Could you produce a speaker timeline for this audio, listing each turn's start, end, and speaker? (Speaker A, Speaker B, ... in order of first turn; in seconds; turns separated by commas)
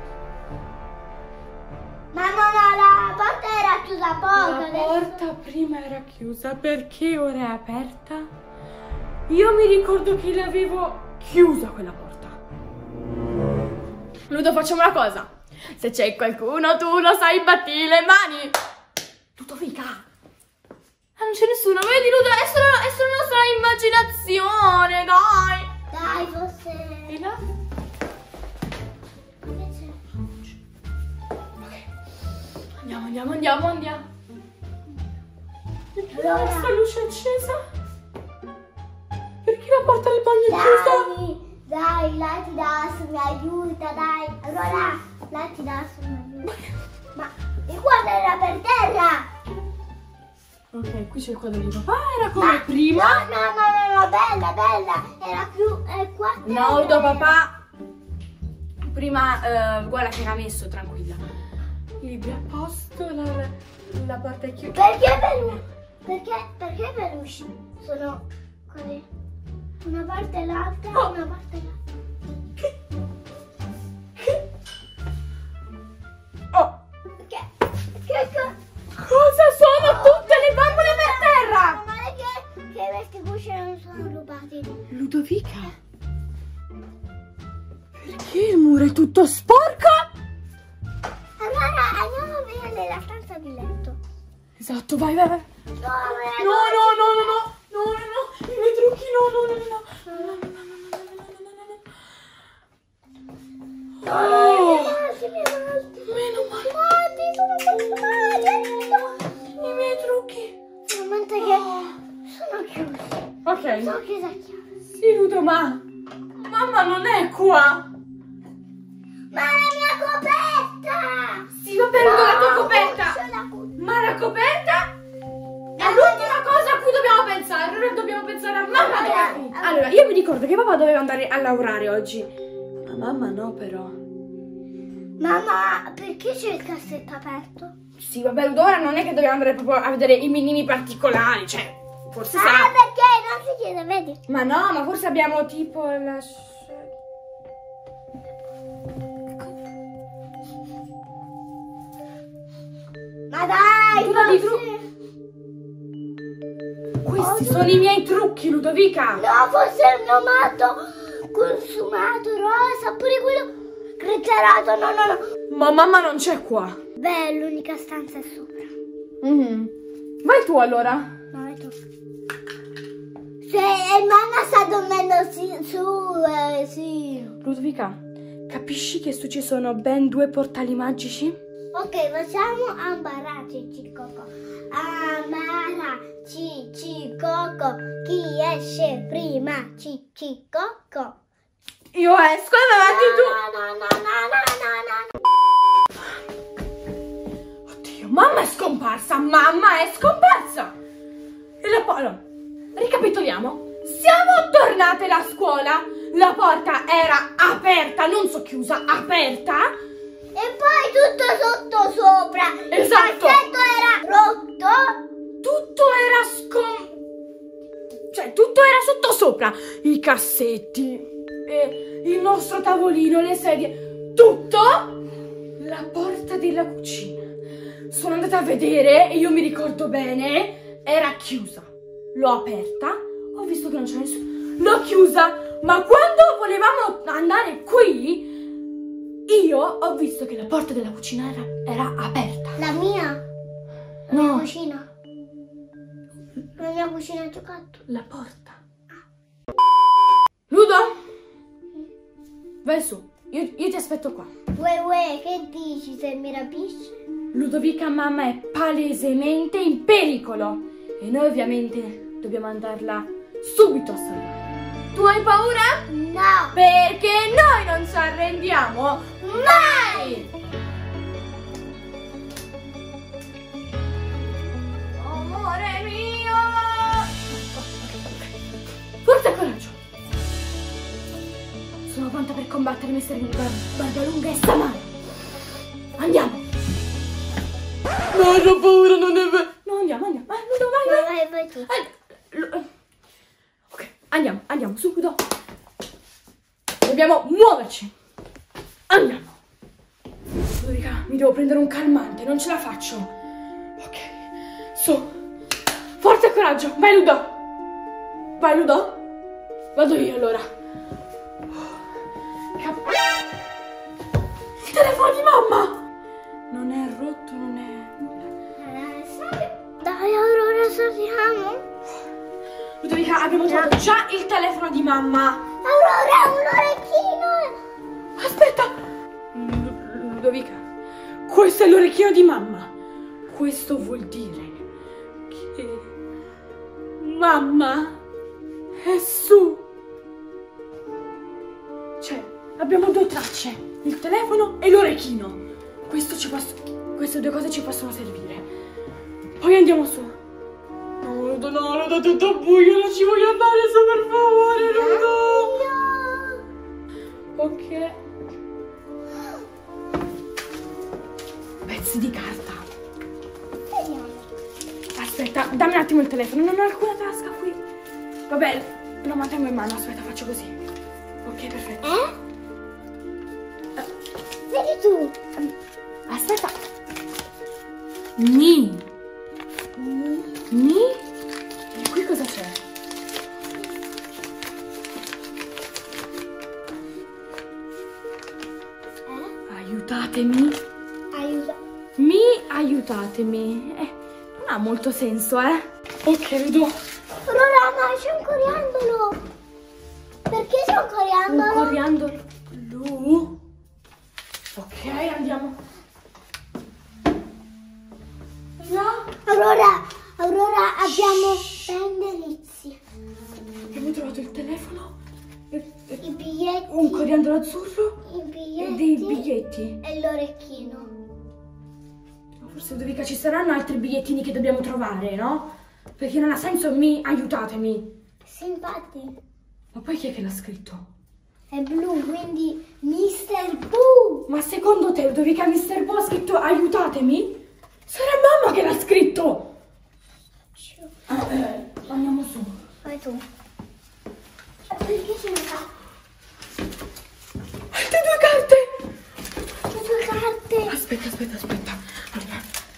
Speaker A: 2.1-5.2, Speaker B: 4.4-8.3, Speaker B: 9.3-12.4, Speaker B: 14.3-18.6, Speaker B: 19.4-20.1, Speaker B: 21.2-25.7, Speaker A: 25.9-27.2, Speaker B: 27.1-27.4, Speaker A: 29.4-30.0, Speaker B: 31.6-31.9, Speaker B: 32.8-34.1, Speaker B: 36.0-37.6, Speaker A: 36.1-36.8, Speaker B: 39.5-41.1, Speaker A: 40.5-46.6, Speaker A: 47.1-49.3, Speaker B: 50.7-53.2, Speaker A: 52.4-57.3, Speaker B: 56.4-57.5, Speaker B: 58.8-61.2, Speaker B: 62.0-65.4, Speaker A: 64.7-69.1, Speaker A: 69.8-71.8, Speaker A: 77.2-78.5, Speaker B: 79.0-81.8, Speaker A: 79.8-84.8, Speaker B: 84.9-85.8, Speaker B: 88.0-90.1, Speaker A: 91.4-94.0, Speaker B: 94.6-95.5, Speaker A: 95.8-97.4, Speaker B: 96.3-101.8, Speaker A: 100.1-100.4, Speaker A: 104.0-109.2, Speaker B: 104.0-105.0, Speaker B: 106.1-106.8, Speaker B: 109.6-110.5, Speaker A: 110.9-111.7, Speaker B: 111.4-112.0, Speaker A: 112.3-113.3, Speaker B: 113.5-114.0, Speaker A: 113.8-114.7, Speaker B: 115.0-115.8, Speaker B: 116.4-117.9, Speaker A: 119.3-123.8, Speaker B: 121.6-123.2, Speaker B: 123.8-124.9, Speaker A: 125.8-126.7, Speaker B: 125.8-134.0, Speaker A: 128.7-129.9, Speaker A: 135.2-137.7, Speaker B: 138.0-142.7, Speaker A: 142.3-144.2, Speaker B: 144.3-146.9, Speaker A: 153.3-154.8, Speaker B: 153.9-154.6, Speaker B: 157.0-159.2, Speaker A: 157.2-157.9, Speaker A: 159.2-165.2, Speaker B: 165.5-166.8, Speaker A: 167.0-168.7, Speaker B: 169.2-169.7, Speaker B: 170.2-171.1, Speaker A: 171.3-171.8, Speaker A: 173.4-177.4, Speaker B: 177.4-181.4, Speaker A: 181.7-191.2, Speaker B: 191.9-193.4, Speaker A: 192.8-195.2, Speaker B: 197.7-200.8, Speaker B: 201.6-202.2, Speaker B: 202.8-209.7, Speaker A: 210.3-215.0, Speaker B: 212.7-213.4, Speaker B: 215.4-216.9, Speaker B: 218.1-225.0, Speaker B: 225.6-227.2, Speaker B: 227.9-238.3, Speaker B: 239.3-242.6, Speaker A: 242.6-243.2, Speaker A: 244.1-244.9, Speaker B: 244.1-244.5, Speaker A: 246.6-247.8, Speaker B: 247.9-248.6, Speaker B: 250.5-250.9, Speaker B: 252.6-254.3, Speaker A: 254.5-257.0, Speaker B: 257.3-265.9, Speaker A: 265.9-266.6, Speaker B: 266.5-270.3, Speaker A: 269.2-270.3, Speaker B: 275.0-278.3, Speaker B: 279.1-279.8, Speaker B: 281.9-284.9, Speaker B: 286.0-286.4, Speaker B: 288.1-291.1, Speaker A: 290.9-291.7, Speaker B: 291.7-292.7, Speaker B: 293.7-295.2, Speaker B: 296.8-297.9, Speaker B: 298.9-299.3, Speaker B: 300.6-303.1, Speaker B: 303.8-305.1, Speaker B: 306.0-307.3, Speaker B: 308.4-309.0, Speaker B: 309.8-310.4, Speaker B: 312.6-313.0, Speaker B: 314.6-315.8, Speaker B: 316.5-318.3, Speaker A: 318.6-321.6, Speaker B: 322.8-325.4, Speaker A: 323.4-323.7, Speaker A: 325.6-327.6, Speaker B: 328.2-328.8, Speaker B: 329.3-330.6, Speaker B: 331.3-332.7, Speaker B: 333.3-334.6, Speaker B: 335.3-335.9, Speaker B: 337.0-338.0, Speaker B: 338.8-339.7, Speaker B: 342.0-348.4, Speaker B: 349.4-350.2, Speaker B: 351.0-355.6, Speaker A: 354.6-356.4, Speaker B: 357.3-358.0, Speaker B: 361.6-362.7, Speaker A: 363.7-364.2, Speaker B: 364.9-367.6, Speaker B: 368.3-370.6, Speaker B: 371.2-371.8, Speaker A: 371.8-372.1, Speaker A: 374.5-375.2, Speaker B: 376.1-376.6, Speaker B: 378.2-378.9, Speaker A: 379.8-380.4, Speaker B: 380.5-381.0, Speaker B: 381.7-382.6, Speaker A: 389.1-389.3, Speaker B: 389.5-390.6, Speaker A: 391.1-391.6, Speaker B: 392.0-396.8, Speaker A: 397.2-399.2, Speaker A: 400.3-401.8, Speaker B: 401.3-403.4, Speaker B: 404.5-405.6, Speaker B: 408.6-409.1, Speaker A: 409.1-412.8, Speaker B: 413.7-414.9, Speaker B: 415.5-416.0, Speaker A: 416.0-417.1, Speaker B: 416.7-418.0, Speaker A: 418.0-419.3, Speaker B: 418.6-419.8, Speaker A: 419.8-420.9, Speaker B: 422.4-427.9, Speaker A: 428.2-429.2, Speaker B: 429.7-430.9, Speaker A: 431.5-434.3, Speaker B: 434.3-439.5, Speaker A: 440.6-440.9, Speaker B: 441.1-442.6, Speaker A: 442.8-443.2, Speaker A: 444.7-445.7, Speaker B: 447.7-448.7, Speaker A: 449.7-450.8, Speaker B: 450.7-452.4